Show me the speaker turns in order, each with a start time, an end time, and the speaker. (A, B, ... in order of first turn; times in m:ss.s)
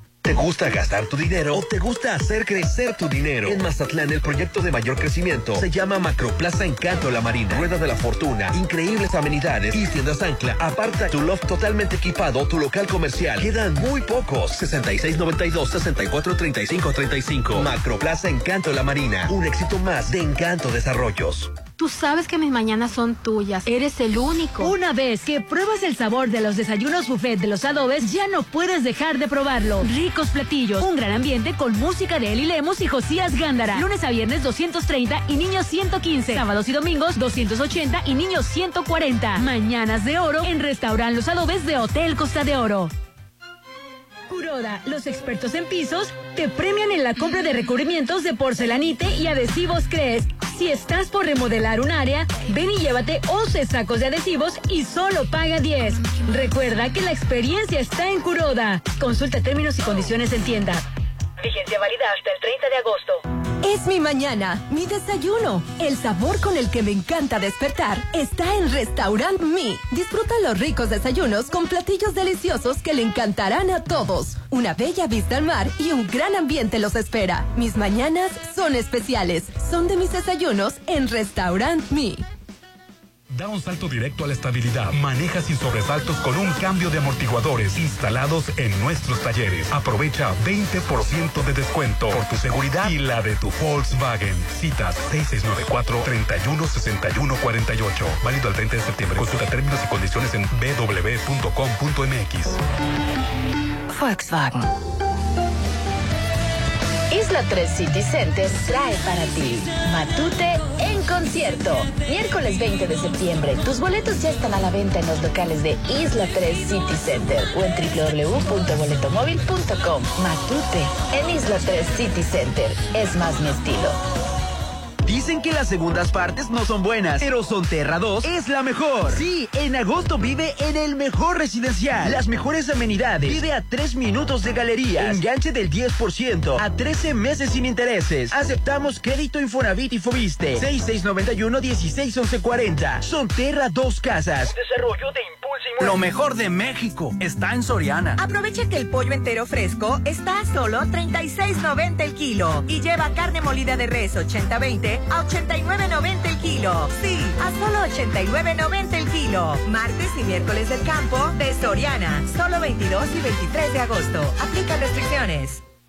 0:00.2-0:21.6 A
0:21.7-0:24.7 B
0:24.6-0:42.9 C
0:44.3-1:00.8 C
1:03.6-1:22.2 D
1:23.3-1:42.6 E
1:44.1-1:44.6 F
1:47.1-2:04.0 F
2:05.0-2:24.5 G
2:28.2-2:45.6 H